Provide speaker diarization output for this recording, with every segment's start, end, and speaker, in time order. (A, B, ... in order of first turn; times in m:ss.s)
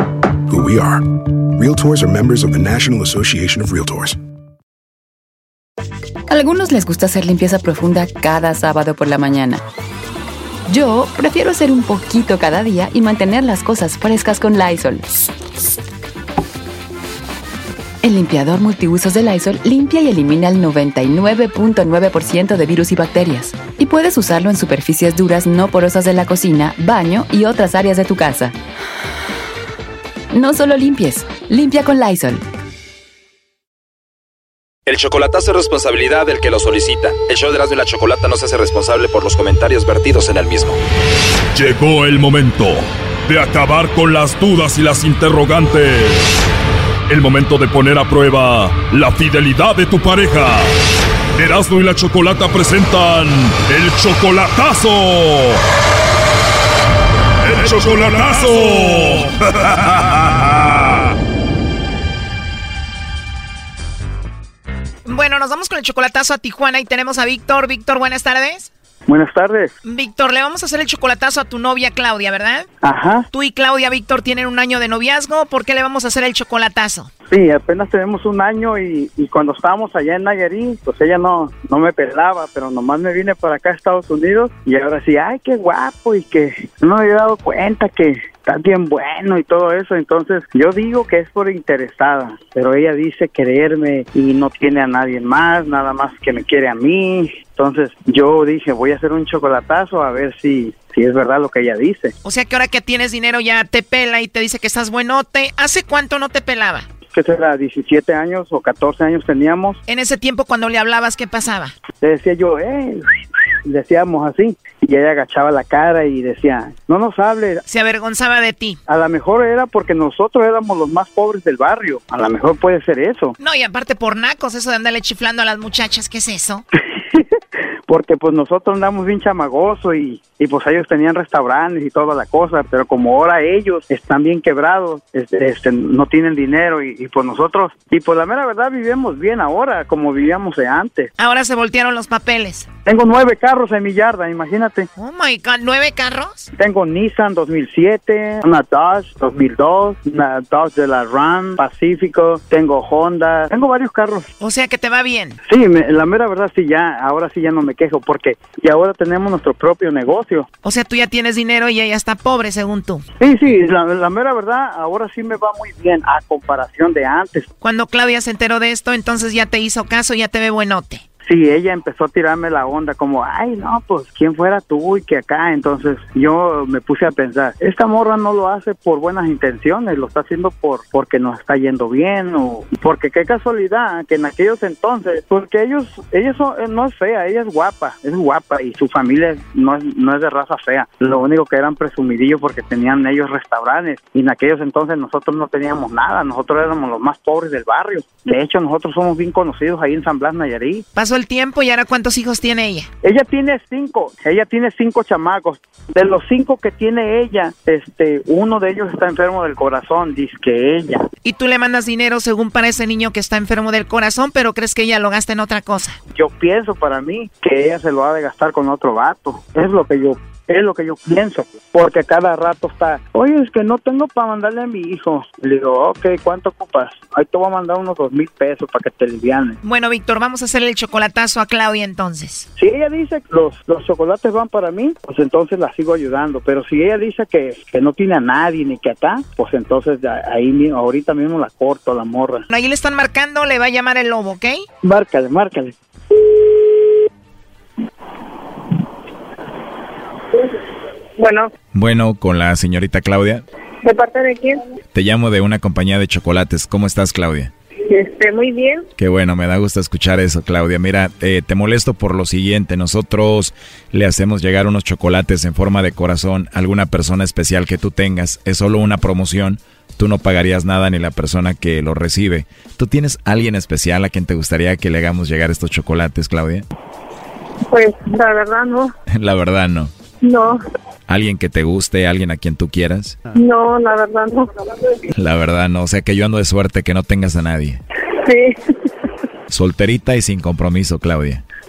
0:00.5-0:04.2 A
0:06.3-0:09.6 B
0:10.7-0:15.1 B
0:18.0-0:28.5 B
0:30.3-0:32.4 B
0:34.9-0:40.8 C
0:41.5-0:46.4 D
0:47.1-0:50.7 D
0:51.4-0:55.6 D
0:57.4-1:01.1 D
1:05.0-1:08.7 E
1:09.1-1:09.7 F
1:09.8-1:12.7 E
1:12.8-1:13.3 F
1:13.3-1:17.1 E
1:17.3-1:42.1 F
1:42.2-1:46.9 E
1:47.1-1:49.8 F
1:49.9-1:51.8 E
1:52.0-1:53.1 F
1:53.6-1:57.6 F
1:57.7-1:58.8 E
1:58.9-2:03.3 F
2:03.4-2:06.6 E
2:07.0-2:07.2 F
2:07.9-2:21.1 F
2:21.2-2:22.7 E
2:22.8-2:24.9 F
2:25.0-2:26.5 E
2:26.6-2:34.3 F
2:34.4-2:35.4 E
2:35.4-2:40.5 F
2:40.6-2:43.1 E
2:43.2-2:47.5 F
2:47.6-2:51.0 E
2:51.2-3:20.8 F
3:20.9-3:22.9 E
3:23.0-3:31.1 F
3:31.2-3:36.0 E
3:36.1-3:49.6 F
3:49.6-3:52.5 E
3:52.6-4:02.4 F
4:02.5-4:04.6 E
4:04.8-4:05.7 F
4:11.2-4:11.5 G
4:11.7-4:13.4 H
4:13.8-4:14.6 G
4:14.9-4:17.5 H
4:17.9-4:18.8 G
4:19.0-4:36.6 H
4:37.7-4:38.9 G
4:39.1-4:39.9 H
4:40.2-4:40.6 G
4:41.1-4:43.2 H
4:43.3-4:44.9 G
4:45.1-4:47.8 H
4:48.2-4:48.5 G
4:49.5-4:51.4 H